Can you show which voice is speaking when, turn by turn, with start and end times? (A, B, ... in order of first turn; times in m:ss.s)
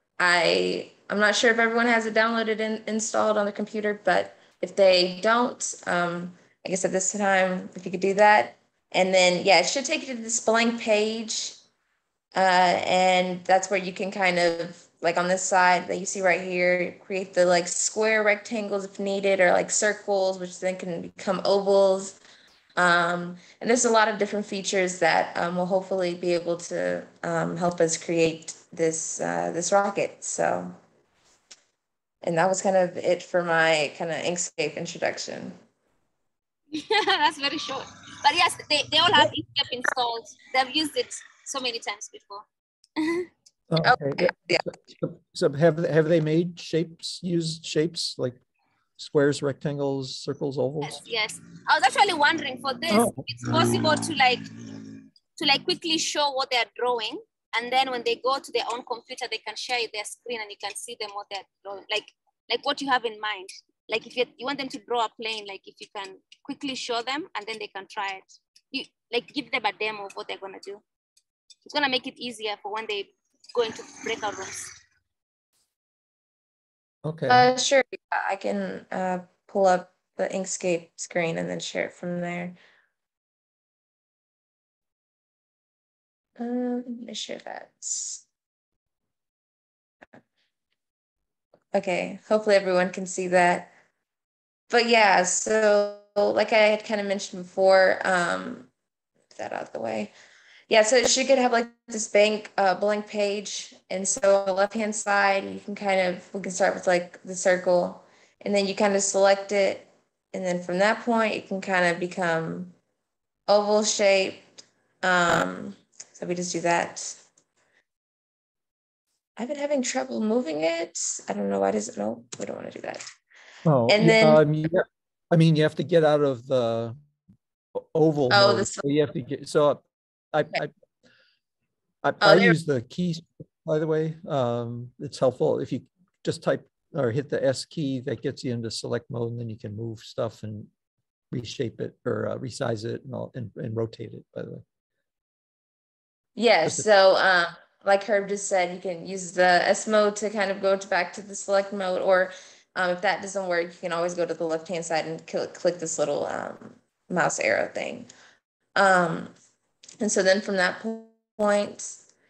0:00.2-0:11.6 A
0:12.3-0:22.2 A
0:22.8-0:30.7 A
0:32.2-0:35.6 A
0:36.7-0:42.4 B
0:43.0-0:43.3 B
0:43.7-0:48.4 C
0:43.8-0:44.7 A
0:49.0-0:51.0 C
0:50.8-0:54.5 B
0:52.9-0:54.0 C
0:55.4-1:10.8 B
1:11.6-1:14.7 B
1:17.0-1:17.5 C
1:17.3-1:22.6 A
1:26.4-1:28.2 A
1:31.7-1:33.7 A
1:34.7-1:38.7 A
1:39.4-1:40.1 A
1:40.7-1:52.7 A
1:53.5-1:54.4 A
1:55.0-1:57.2 A
1:59.4-2:03.0 A
2:03.6-2:07.0 C
2:03.9-2:04.4 A
2:07.7-2:10.7 C
2:08.3-2:08.8 A
2:12.0-2:20.7 C
2:12.2-2:12.6 A
2:21.3-2:24.6 C
2:26.4-2:38.1 A
2:38.7-2:39.3 A
2:40.0-2:42.0 A